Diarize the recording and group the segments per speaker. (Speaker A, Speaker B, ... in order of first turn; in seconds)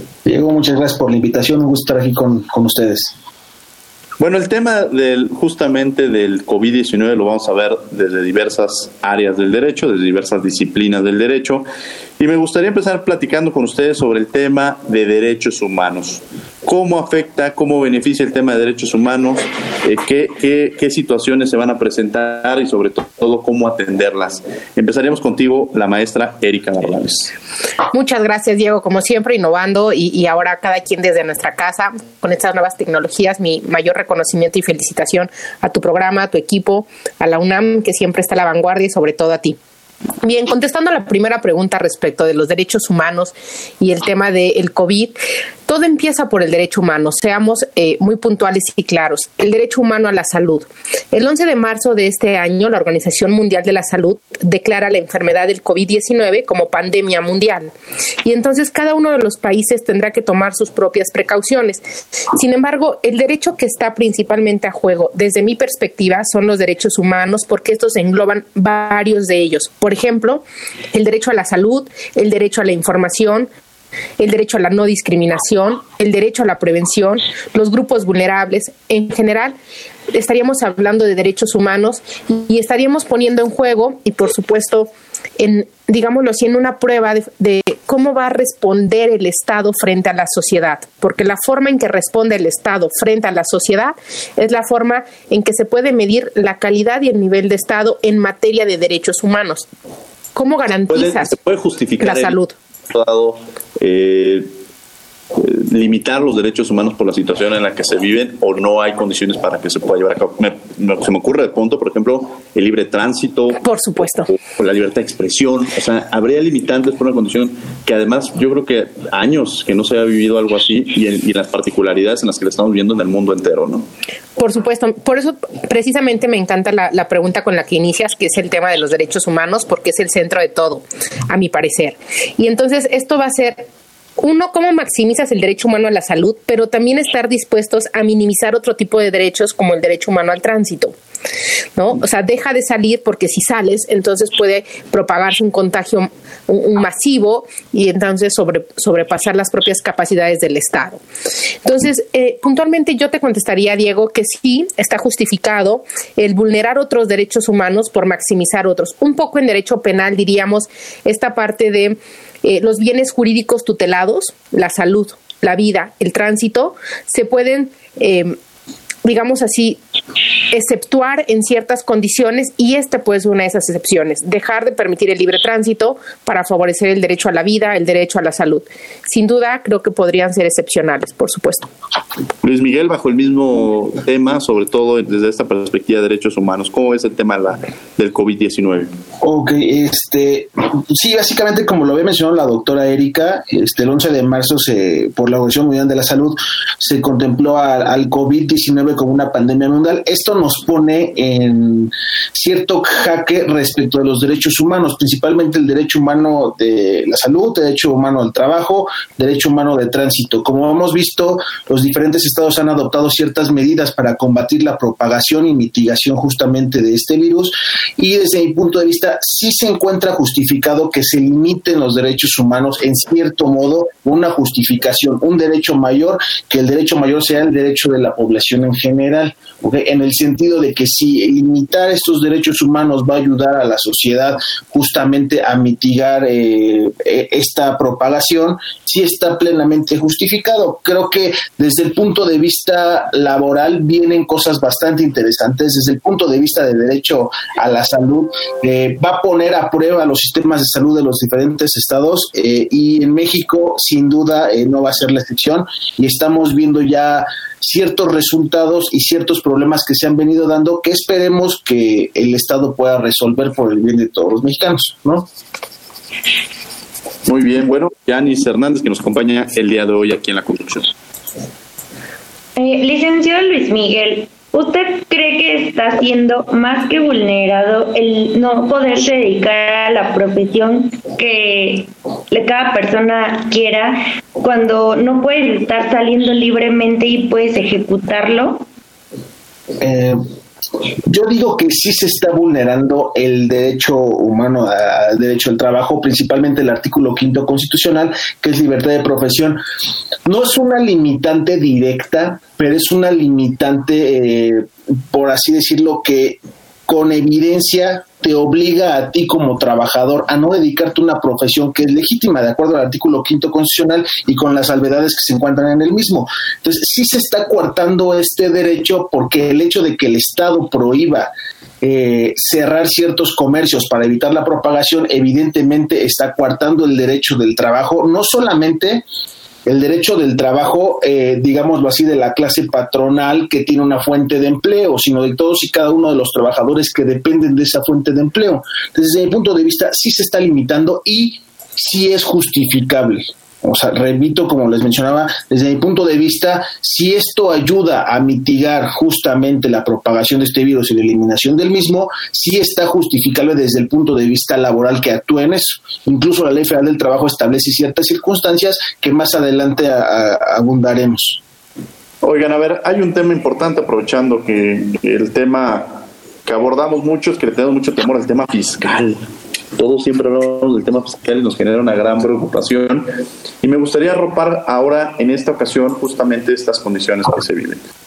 Speaker A: 0.2-3.1, 189.2-265.3, 289.8-290.2, 291.1-299.6, 300.2-329.1, 329.6-361.4
Speaker B: 4.2-11.6, 12.2-27.3, 100.9-102.4, 102.9-104.5, 105.3-113.6, 114.4-123.9, 182.4-188.9, 267.2-270.9, 362.2-369.2, 369.8-373.1, 373.6-377.8
Speaker C: 27.9-39.6, 40.2-57.7, 58.2-61.8, 62.3-73.5, 74.2-79.5, 80.1-99.7, 100.3-101.3, 102.0-102.5, 113.6-114.3, 124.4-133.7, 134.2-140.9, 141.8-151.0, 151.6-168.4, 169.0-169.8, 170.5-181.7
Speaker D: 272.6-288.6